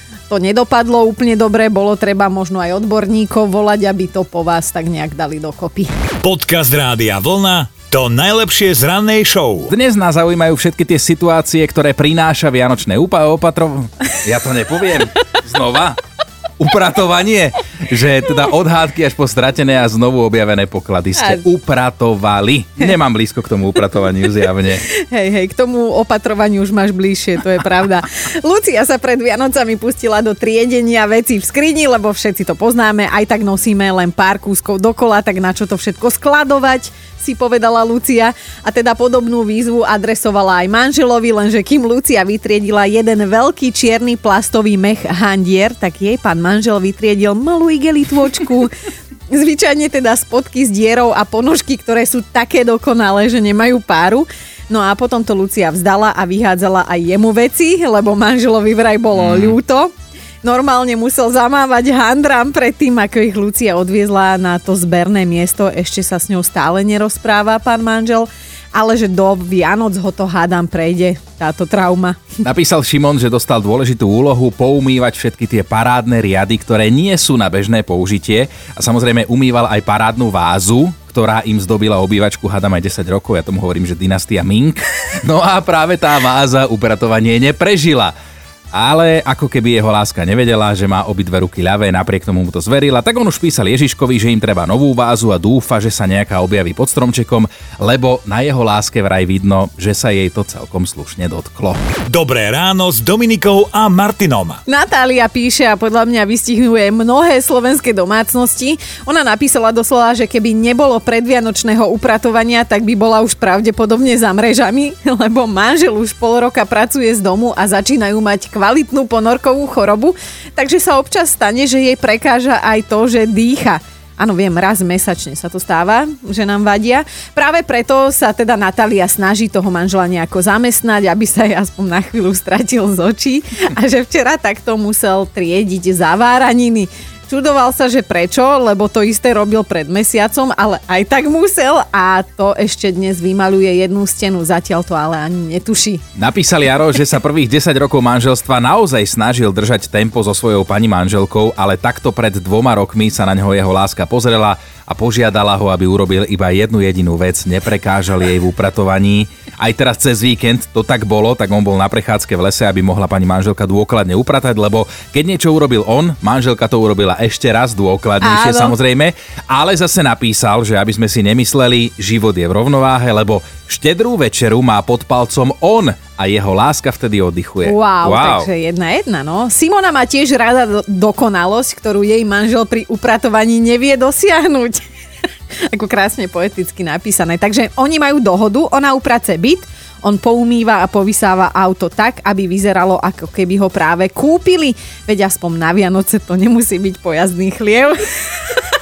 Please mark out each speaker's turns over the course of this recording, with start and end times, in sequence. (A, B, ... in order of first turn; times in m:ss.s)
0:00.3-0:05.9 A
0:06.2-0:09.7 B
0:09.7-0:16.0 C
0:16.6-0:24.8 C
0:21.2-0:21.4 A
0:24.8-0:48.7 A
0:49.3-0:59.9 A
0:59.1-0:59.6 C
1:00.4-1:12.4 A
1:12.4-1:28.1 C
1:28.7-1:41.8 C
1:42.1-1:44.6 B
1:44.7-2:26.0 A
2:26.2-2:58.5 C
2:48.2-2:48.7 A
2:57.6-3:04.8 A
3:05.6-3:18.1 A